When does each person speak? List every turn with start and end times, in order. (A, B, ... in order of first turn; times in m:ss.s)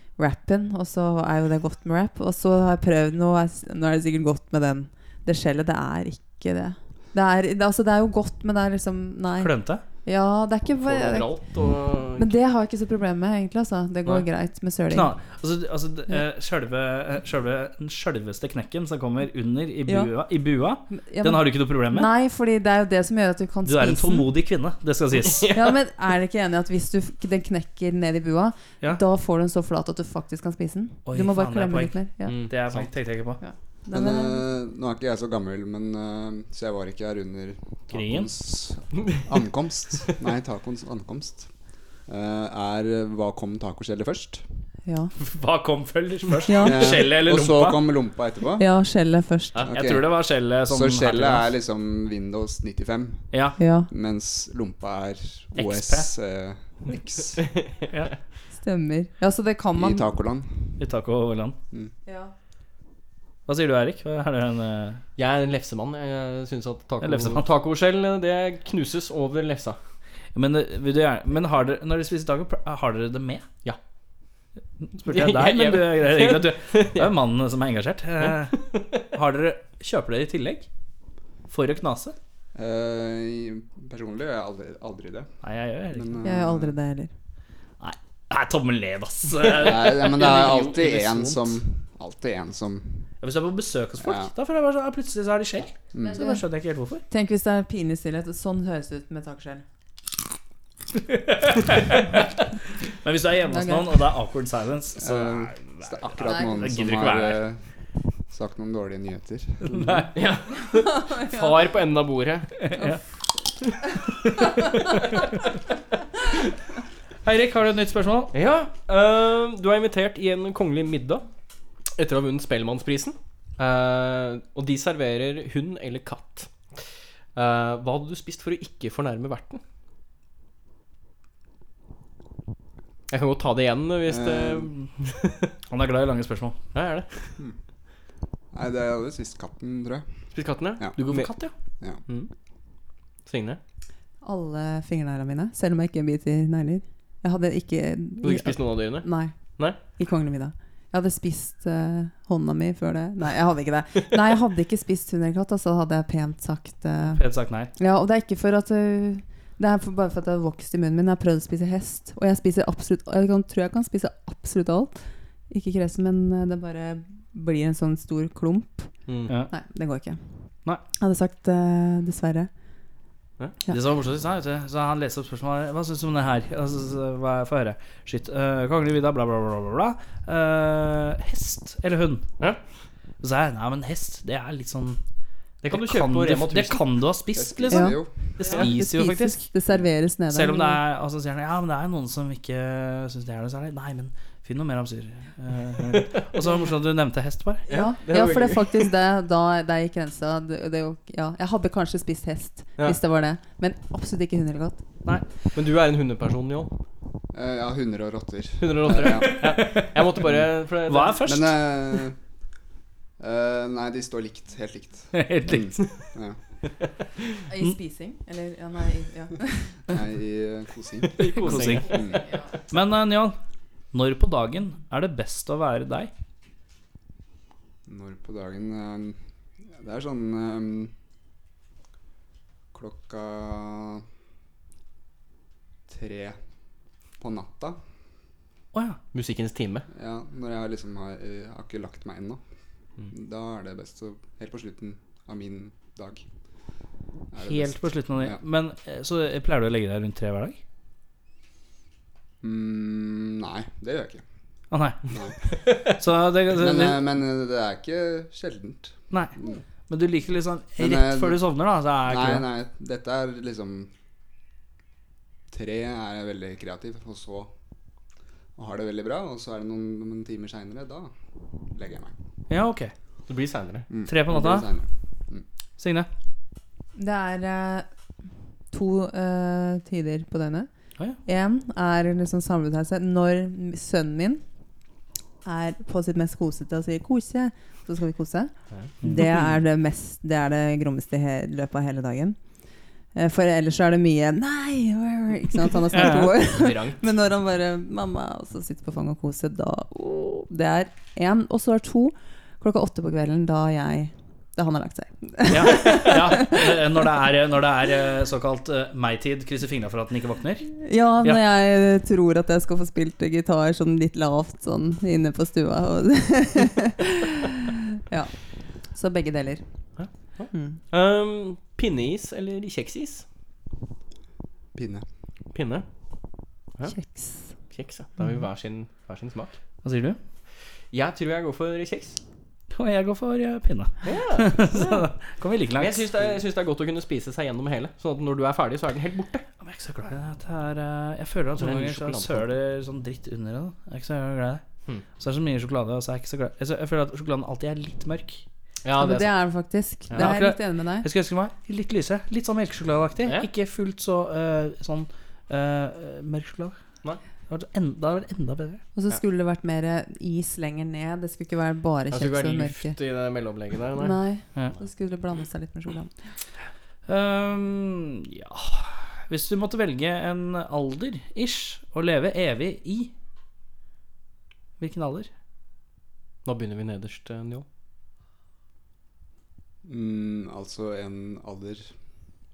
0:00.2-0:11.4 A
0:09.4-0:09.8 B
0:10.8-0:12.3 C
0:12.2-0:15.1 A
0:14.9-0:22.1 B
0:19.9-0:20.1 A
0:20.9-0:24.3 A
0:23.6-0:25.5 B
0:25.4-0:25.7 C
0:25.5-0:32.5 A
0:31.1-0:33.4 B
0:32.2-0:32.9 C
0:33.4-0:34.4 A
0:33.9-0:41.5 D
0:37.9-0:38.7 B
0:42.1-0:44.4 D
0:44.9-0:45.1 A
0:45.2-0:47.8 B
0:46.5-0:46.9 A
0:46.6-0:48.7 D
0:48.6-0:49.7 A
0:49.5-0:51.5 B
0:49.7-0:53.4 D
0:53.3-0:53.6 B
0:53.6-0:53.9 A
0:53.9-0:57.4 D
0:55.6-0:56.1 B
0:57.4-0:57.9 C
0:58.6-1:00.1 A
0:59.7-1:00.8 D
1:00.8-1:01.6 B
1:02.1-1:02.3 A
1:03.5-1:05.0 B
1:05.2-1:09.8 C
1:07.0-1:07.5 B
1:10.4-1:13.5 B
1:14.8-1:20.7 B
1:15.1-1:17.1 C
1:18.2-1:19.0 C
1:21.5-1:22.2 B
1:22.6-1:25.3 D
1:25.4-1:26.2 B
1:25.9-1:26.8 D
1:26.2-1:27.1 A
1:27.8-1:31.6 B
1:29.5-1:33.1 D
1:33.2-1:37.0 B
1:34.0-1:34.3 D
1:35.9-1:36.3 D
1:36.0-1:36.4 A
1:37.1-1:39.6 A
1:41.1-1:42.3 B
1:43.0-1:47.4 B
1:43.5-1:44.1 A
1:45.0-1:47.6 D
1:48.3-1:50.0 D
1:49.6-1:50.1 B
1:50.1-1:52.6 C
1:50.6-1:51.5 A
1:52.7-1:53.0 B
1:54.7-1:55.2 C
1:57.2-1:58.3 B
1:58.3-2:01.2 C
2:01.9-2:09.6 C
2:13.1-2:15.5 C
2:14.1-2:14.7 D
2:15.7-2:16.6 B
2:16.7-2:17.1 C
2:18.5-2:20.1 D
2:20.3-2:21.3 C
2:21.0-2:21.5 B
2:23.3-2:23.6 C
2:24.2-2:37.2 A
2:28.2-2:29.8 C
2:37.1-2:37.7 B
2:37.8-2:50.3 A
2:49.1-2:49.3 C
2:51.0-2:52.5 A
2:53.7-3:02.3 B
3:03.2-3:05.0 B
3:05.6-3:06.8 C
3:05.7-3:09.5 B
3:07.3-3:08.3 D
3:07.7-3:10.8 A
3:10.3-3:17.6 B
3:17.7-3:18.9 C
3:17.7-3:24.8 A
3:25.6-3:26.7 C
3:27.3-3:29.5 D
3:28.6-3:31.3 C
3:29.2-3:30.2 B
3:30.9-3:31.6 B
3:31.2-3:32.2 D
3:33.2-3:36.4 D
3:35.1-3:35.8 B
3:37.5-3:39.7 A
3:39.9-3:42.2 D
3:41.2-3:42.2 C
3:41.4-3:42.0 B
3:42.7-3:43.4 B
3:43.9-3:46.1 B
3:47.9-3:49.2 D
3:49.8-3:50.9 D
3:52.7-3:54.0 D
3:55.9-3:56.4 D
3:57.2-3:57.8 D
3:58.7-3:59.0 B
3:59.1-3:59.9 C
3:59.9-4:02.4 D
4:03.1-4:06.2 D
4:07.3-4:08.4 D
4:07.4-4:10.6 B
4:12.4-4:14.2 D
4:14.7-4:15.0 B
4:15.1-4:15.4 D
4:15.9-4:17.0 B
4:16.5-4:19.6 D
4:19.9-4:22.5 B
4:20.8-4:21.4 D
4:22.1-4:23.9 D
4:25.5-4:27.5 D
4:28.6-4:31.1 D
4:31.7-4:32.1 D
4:32.5-4:32.9 B
4:33.3-4:33.9 C
4:33.9-4:35.4 D
4:34.1-4:34.7 B
4:35.8-4:36.1 B
4:37.0-4:37.9 A
4:38.7-4:40.7 A
4:41.2-4:44.4 A
4:45.4-4:48.5 A
4:49.0-4:49.4 B
4:49.0-4:52.4 A
4:53.1-5:06.8 A
4:55.9-4:56.3 B
4:56.4-4:57.1 C
5:05.5-5:11.4 B
5:10.7-5:17.5 A
5:18.1-5:19.9 A
5:20.0-5:23.3 C
5:20.5-5:20.8 A
5:24.8-5:25.0 D
5:25.5-5:25.9 C
5:26.9-5:27.5 A
5:27.6-5:29.6 C
5:29.8-5:30.2 B
5:30.9-5:32.2 C
5:32.7-5:36.1 B
5:34.0-5:35.1 C
5:35.8-5:39.4 C
5:39.6-5:44.6 B
5:41.6-5:42.5 C
5:45.2-5:48.4 B
5:48.8-5:49.3 C
5:49.0-5:51.1 A
5:50.2-5:56.8 B
5:53.2-5:53.5 C
5:57.5-5:58.8 B
5:59.0-6:03.0 A
6:02.1-6:04.2 C
6:04.0-6:06.1 A
6:07.1-6:13.1 B
6:14.8-6:15.3 B
6:16.4-6:17.7 C
6:19.8-6:21.9 D